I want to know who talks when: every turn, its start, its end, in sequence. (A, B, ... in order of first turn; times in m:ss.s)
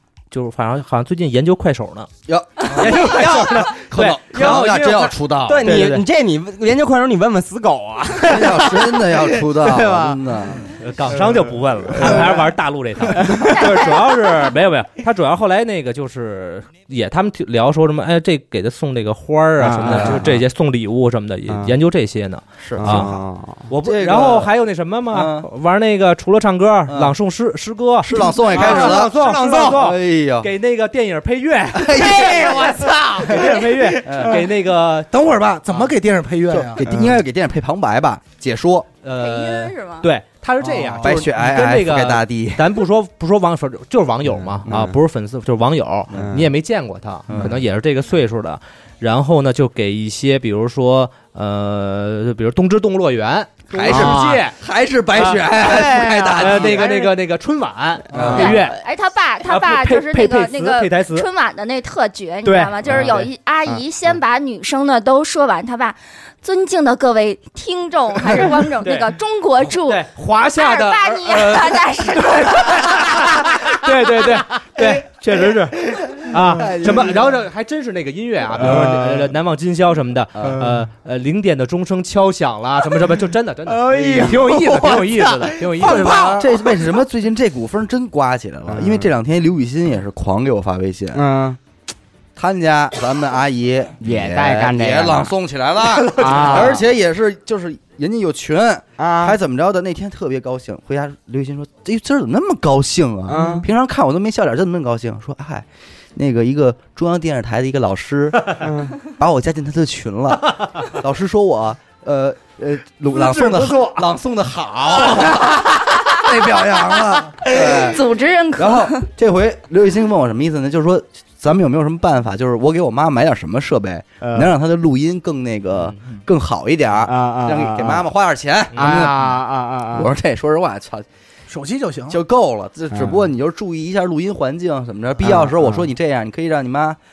0:00.3-0:02.1 A
0:02.2-0:06.0 B
0:02.7-0:06.0 A
0:04.3-0:10.2 C
0:08.2-0:10.7 B
0:10.8-0:35.1 A
0:12.0-0:12.2 C
0:13.3-0:14.3 D
0:19.6-0:20.4 C
0:19.8-0:20.3 B
0:21.5-0:21.7 C
0:22.6-0:23.2 B
0:22.8-0:23.6 C
0:23.8-0:24.5 B
0:25.1-0:25.5 B
0:26.9-0:27.1 B
0:28.0-0:30.5 B
0:28.5-0:29.8 E
0:29.4-0:29.8 C
0:31.7-0:32.7 B
0:31.9-0:33.5 C
0:32.1-0:32.8 D
0:34.0-0:34.4 B
0:35.1-0:36.8 E
0:36.5-0:38.9 B
0:36.8-0:37.2 C
0:39.0-0:54.6 A
0:39.2-0:40.1 D
0:40.7-0:41.2 E
0:41.0-0:42.8 B
0:44.3-0:45.0 C
0:46.1-0:46.5 C
0:47.3-0:47.6 B
0:53.7-0:56.9 B
0:53.8-0:54.2 C
0:55.1-0:58.8 A
0:55.5-0:57.1 C
0:58.1-0:58.6 B
0:58.1-0:58.6 C
0:58.3-1:13.1 D
0:59.4-1:01.3 A
1:02.4-1:03.3 A
1:03.0-1:03.8 C
1:08.6-1:09.1 A
1:09.6-1:26.4 A
1:14.2-1:14.9 C
1:15.9-1:17.2 C
1:18.6-1:19.2 C
1:20.3-1:20.7 B
1:23.7-1:26.4 C
1:25.8-1:26.4 E
1:25.9-1:31.2 B
1:28.7-1:29.1 C
1:31.1-1:31.6 C
1:32.4-1:56.7 B
1:34.0-1:35.3 C
1:36.1-1:36.8 A
1:36.2-1:36.8 C
1:39.0-1:39.4 C
1:43.3-1:43.7 C
1:48.6-1:49.0 C
1:53.4-1:53.6 E
1:55.8-1:57.6 E
1:57.4-1:58.0 B
1:57.7-1:59.1 D
1:58.6-2:09.4 B
2:04.2-2:04.5 C
2:07.0-2:08.0 C
2:08.7-2:10.1 C
2:09.9-2:11.0 B
2:11.5-2:12.2 E
2:12.1-2:17.0 B
2:12.9-2:13.2 C
2:15.2-2:15.8 C